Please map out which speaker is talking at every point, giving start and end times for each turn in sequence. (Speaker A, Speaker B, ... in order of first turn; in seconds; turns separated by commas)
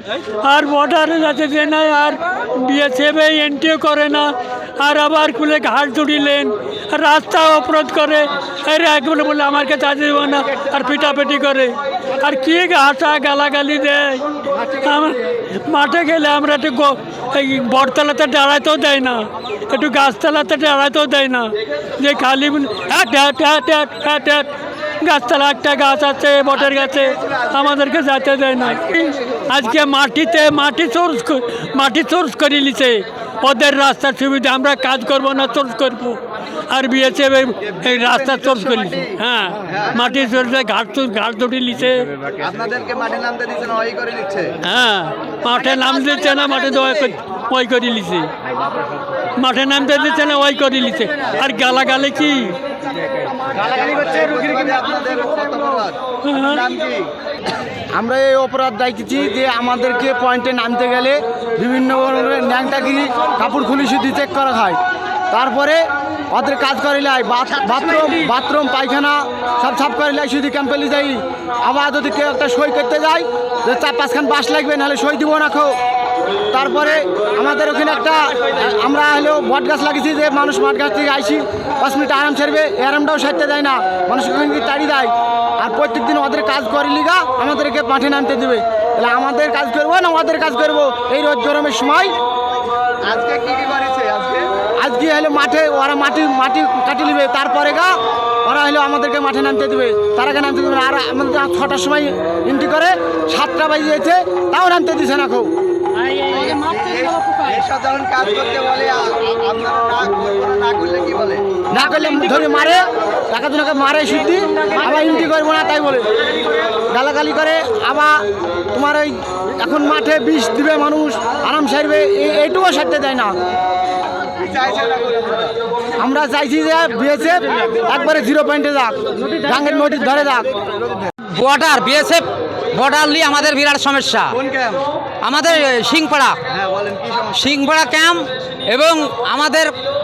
Speaker A: 0.4-24.5, Speaker A: 25.0-42.1, Speaker B: 38.0-38.9, Speaker B: 39.7-40.0, Speaker B: 42.4-44.6, Speaker A: 44.6-48.3, Speaker A: 49.4-52.6, Speaker B: 53.5-57.1, Speaker A: 56.3-56.6, Speaker C: 57.9-64.8, Speaker C: 65.3-75.8, Speaker C: 76.5-92.2, Speaker B: 93.0-94.5, Speaker C: 94.8-105.5, Speaker B: 106.2-111.6, Speaker C: 111.7-116.1, Speaker C: 116.9-123.4, Speaker B: 124.3-125.6, Speaker C: 126.0-130.6, Speaker D: 131.2-134.4, Speaker B: 134.3-134.8, Speaker D: 135.2-136.4, Speaker B: 136.5-137.4, Speaker D: 137.3-139.7